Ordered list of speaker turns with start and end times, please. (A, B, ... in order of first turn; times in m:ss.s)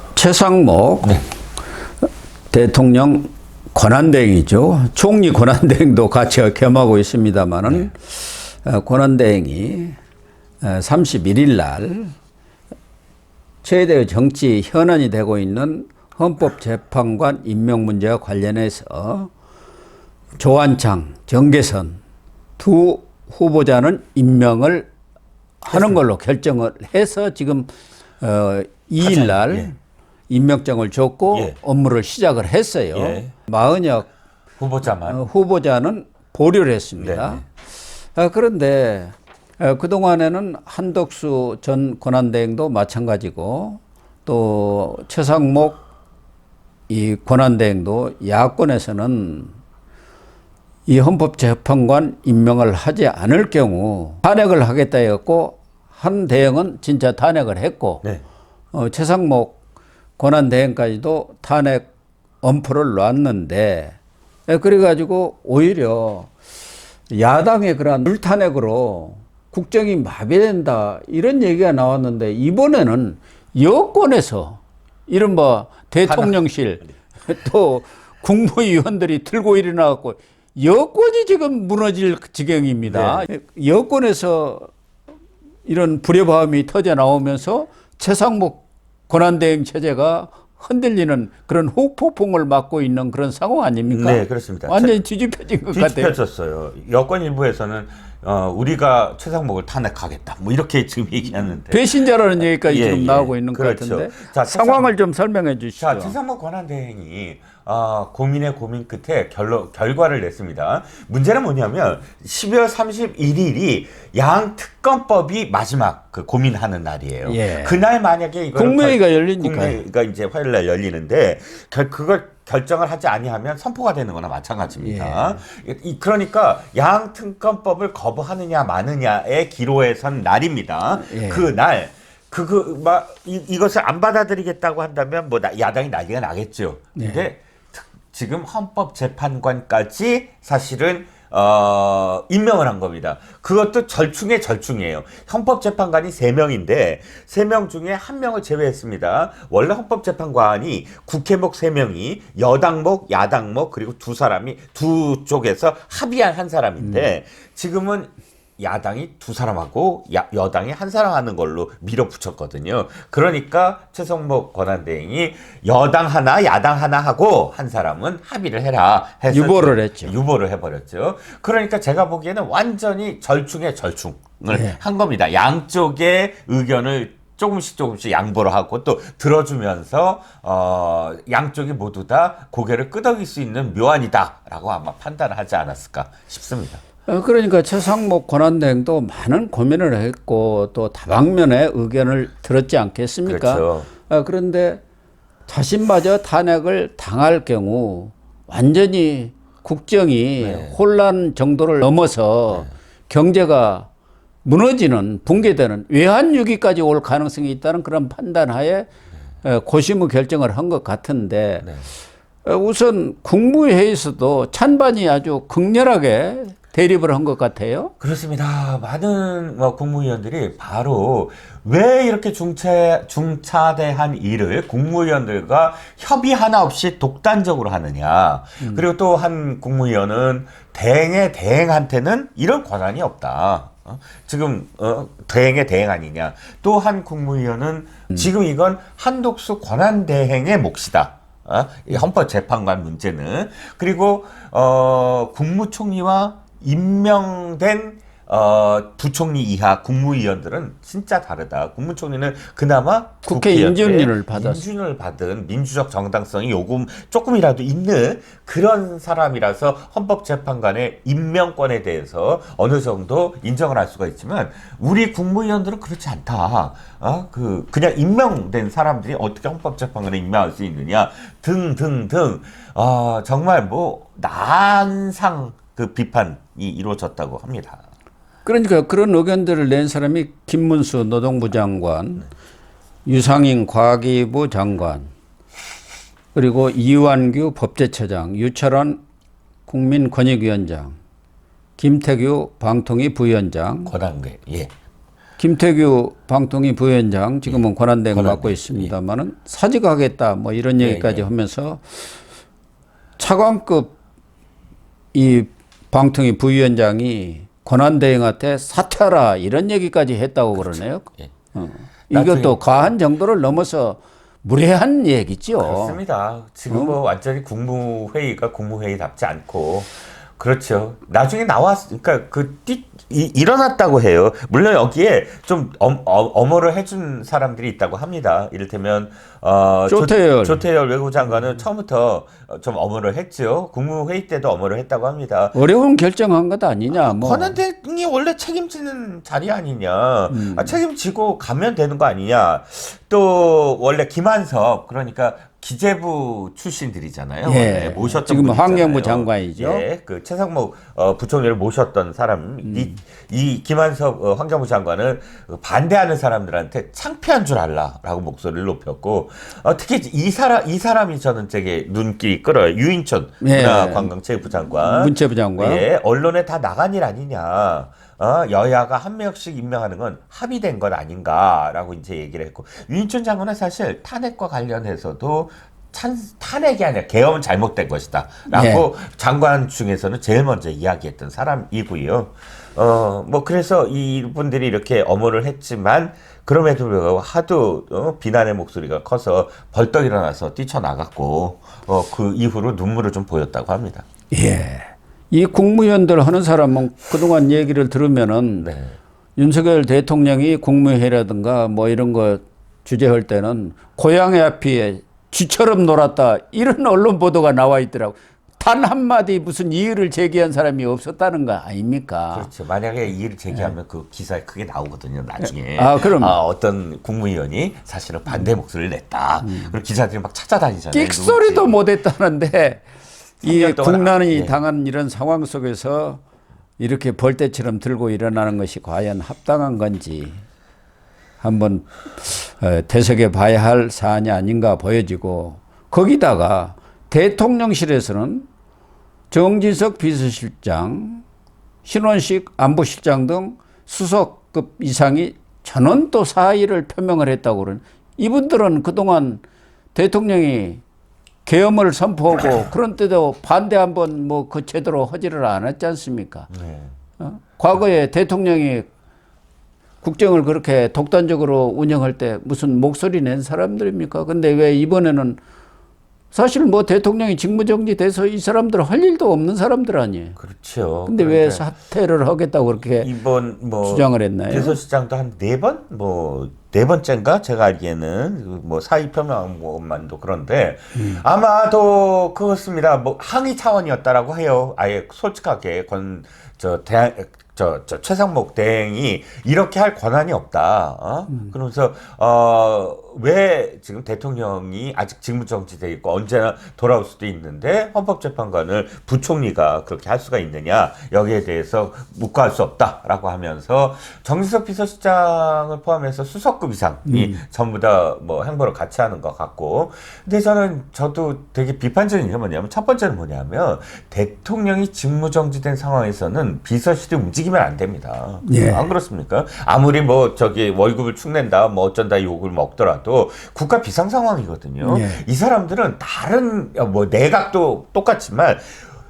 0:00.2-0:01.2 A
0:02.5-0:09.9 A
0:10.6-0:12.1 A
0:13.6-0:19.3 A
0:20.4-0:22.0 A
0:22.6-0:24.9 A
0:25.6-0:29.8 A
0:25.7-0:26.0 B
0:29.0-0:29.7 B
0:30.3-0:34.1 A
0:31.3-0:31.6 B
0:32.9-0:33.3 B
0:34.6-0:35.2 B
0:34.9-0:37.4 A
0:37.0-0:37.4 B
0:38.2-0:45.8 A
0:46.9-0:49.5 A
0:50.9-0:58.0 A
0:58.7-0:59.6 A
1:00.2-1:01.9 A
1:02.4-1:04.0 A
1:04.5-1:06.3 A
1:07.1-1:24.7 A
1:16.1-1:16.4 B
1:22.8-1:23.3 B
1:25.7-1:36.2 A
1:33.9-1:35.0 B
1:35.7-1:41.9 B
1:41.7-1:46.2 A
1:42.4-1:44.9 B
1:45.8-3:06.8 B
1:57.2-1:57.8 A
1:58.6-1:59.8 A
2:04.8-2:05.4 A
2:11.0-2:11.5 A
2:17.0-2:17.2 A
2:36.8-2:37.1 A
2:49.3-2:50.1 A
2:54.5-2:54.8 A
3:07.1-3:14.8 A
3:13.2-3:13.9 B
3:15.5-3:23.9 A
3:20.4-3:20.8 B
3:24.4-3:28.9 A
3:29.4-3:31.7 A
3:31.6-3:31.9 B
3:32.4-3:37.9 A
3:38.0-4:37.8 B
4:13.3-4:14.6 A
4:38.4-4:42.3 A
4:43.1-4:45.1 A
4:46.4-4:49.0 A
4:49.7-4:51.0 A
4:51.8-4:53.9 A
4:53.9-4:54.7 B
4:55.4-5:01.8 A
4:57.5-4:58.9 B
5:00.8-5:01.3 B
5:03.2-5:04.0 A
5:05.1-5:16.0 A
5:12.1-5:12.9 B
5:15.6-5:35.6 B
5:16.7-5:17.0 A
5:29.9-5:30.6 A
5:35.5-5:37.6 A
5:36.9-6:34.1 B
5:40.3-5:40.8 A
5:47.4-5:49.9 A
5:52.6-5:52.9 A
6:03.4-6:04.1 A
6:04.8-6:05.9 A
6:18.5-6:18.9 A
6:34.3-6:38.7 A
6:38.6-6:39.0 B
6:39.4-6:52.5 A
6:52.3-7:01.8 B
6:55.4-6:56.4 A
6:59.4-6:59.7 A
7:00.9-7:02.8 A
7:03.4-7:06.2 A
7:03.4-7:04.6 B
7:06.8-7:10.4 A
7:11.4-7:18.5 A
7:19.3-7:21.2 A
7:21.8-7:29.4 A
7:29.9-7:30.8 A
7:31.5-7:36.5 A
7:36.5-7:36.9 B
7:37.2-7:38.9 A
7:40.0-7:45.4 A
7:46.3-7:50.4 A
7:50.4-7:51.7 B
7:51.1-7:53.1 A
7:53.0-8:48.8 B
7:53.8-7:54.8 A
8:27.1-8:27.4 A
8:38.4-8:38.9 A
8:44.8-8:45.2 A